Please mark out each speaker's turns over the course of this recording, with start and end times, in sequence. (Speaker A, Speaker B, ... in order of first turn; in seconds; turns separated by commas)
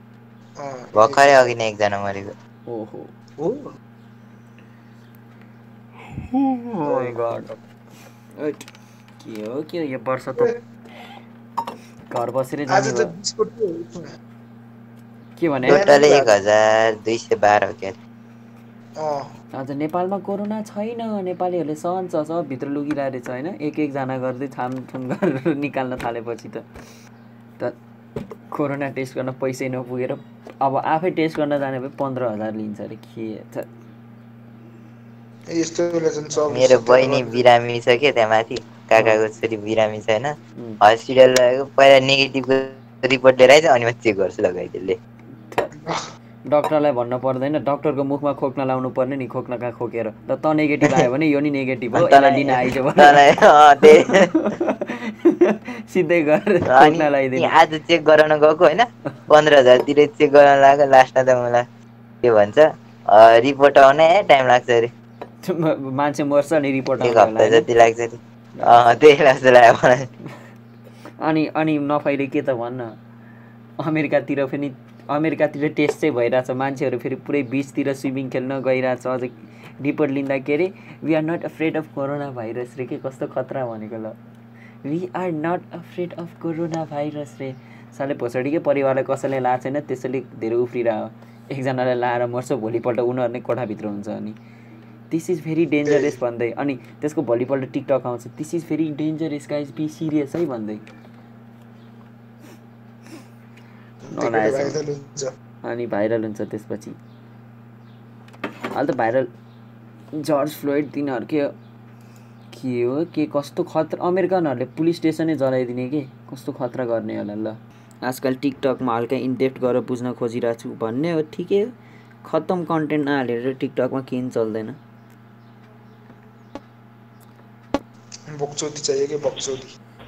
Speaker A: 0.6-1.4, Speaker B: 0.9-2.3, Speaker C: 2.7-3.1, Speaker A: 3.4-3.7, Speaker C: 6.6-7.5, Speaker A: 6.8-7.1, Speaker C: 8.4-8.6, Speaker C: 9.2-10.5, Speaker C: 12.1-13.1, Speaker A: 12.7-14.1, Speaker C: 15.4-15.8, Speaker A: 15.7-16.3, Speaker B: 15.7-17.9, Speaker A: 19.0-19.3, Speaker C: 19.5-26.6, Speaker C: 28.5-33.7, Speaker A: 35.5-37.4, Speaker B: 36.5-45.0, Speaker C: 39.0-39.2, Speaker C: 46.5-53.2, Speaker B: 51.9-54.3, Speaker C: 53.9-57.5, Speaker B: 56.7-61.6, Speaker B: 62.2-64.9, Speaker C: 65.4-67.7, Speaker B: 67.0-70.1, Speaker C: 71.2-73.0, Speaker C: 73.8-84.2, Speaker C: 84.8-94.4, Speaker C: 95.1-100.8, Speaker A: 95.8-96.1, Speaker A: 104.1-105.3, Speaker C: 104.1-104.8, Speaker C: 105.6-107.0, Speaker C: 108.7-109.3, Speaker C: 110.1-111.5, Speaker C: 112.5-121.7, Speaker C: 122.2-124.8, Speaker A: 128.3-129.7